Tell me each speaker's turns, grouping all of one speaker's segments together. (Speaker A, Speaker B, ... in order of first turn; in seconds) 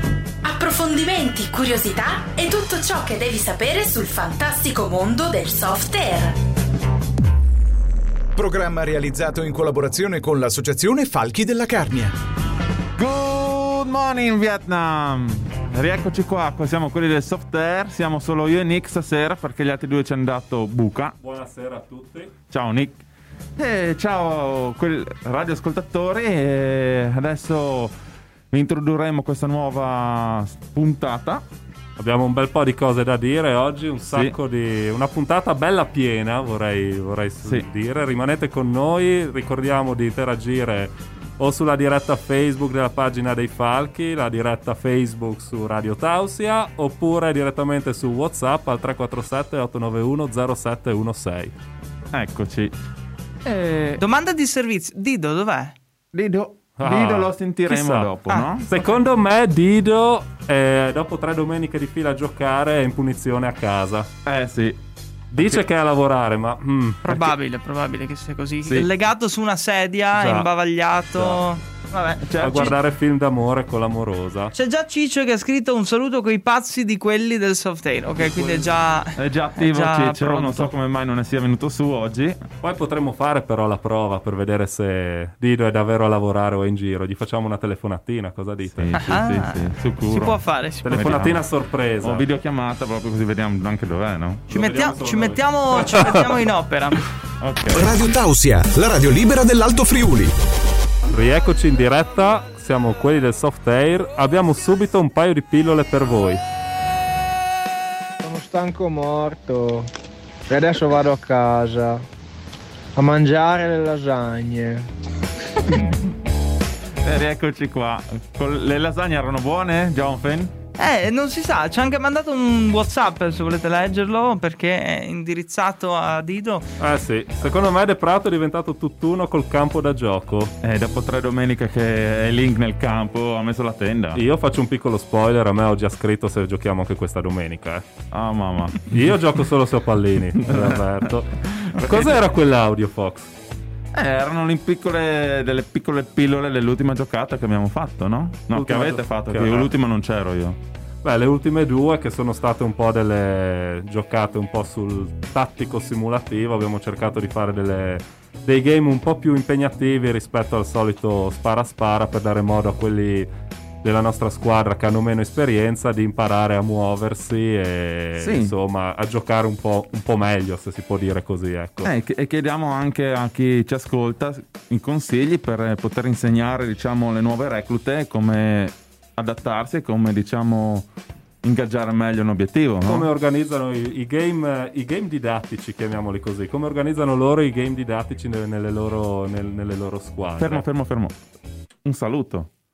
Speaker A: 0.4-6.4
Speaker B: 8.3-12.1, 97.7-100.3
Speaker C: 12.9-21.2, 22.5-23.0, 23.6-27.9, 28.5-31.4, 34.1-34.4, 52.1-52.7, 56.1-58.7, 64.2-64.8, 67.1-67.3, 68.6-68.9, 72.2-72.8, 79.2-82.4, 88.8-91.5, 92.0-94.5, 97.4-98.0, 117.0-120.5, 130.6-134.2, 138.1-139.0, 140.3-142.2, 143.9-150.6, 168.2-168.6, 171.8-180.9, 181.4-183.1, 190.4-191.2, 191.8-192.5
Speaker D: 21.2-22.3, 32.0-51.5, 56.8-58.1, 58.7-64.1, 65.3-67.0, 70.2-70.5, 71.1-71.4, 72.4-74.5, 78.2-78.7, 82.6-89.0, 90.8-92.2, 94.5-96.5, 101.1-106.4, 126.8-130.5, 134.2-137.8, 138.9-143.3, 148.5-149.7, 151.0-163.3, 163.8-171.9, 182.8-190.7
Speaker E: 53.5-55.8, 67.0-72.7, 74.5-80.7, 89.0-91.1, 94.5-97.0, 120.8-126.7
Speaker F: 108.2-109.9, 110.5-112.0, 113.0-114.9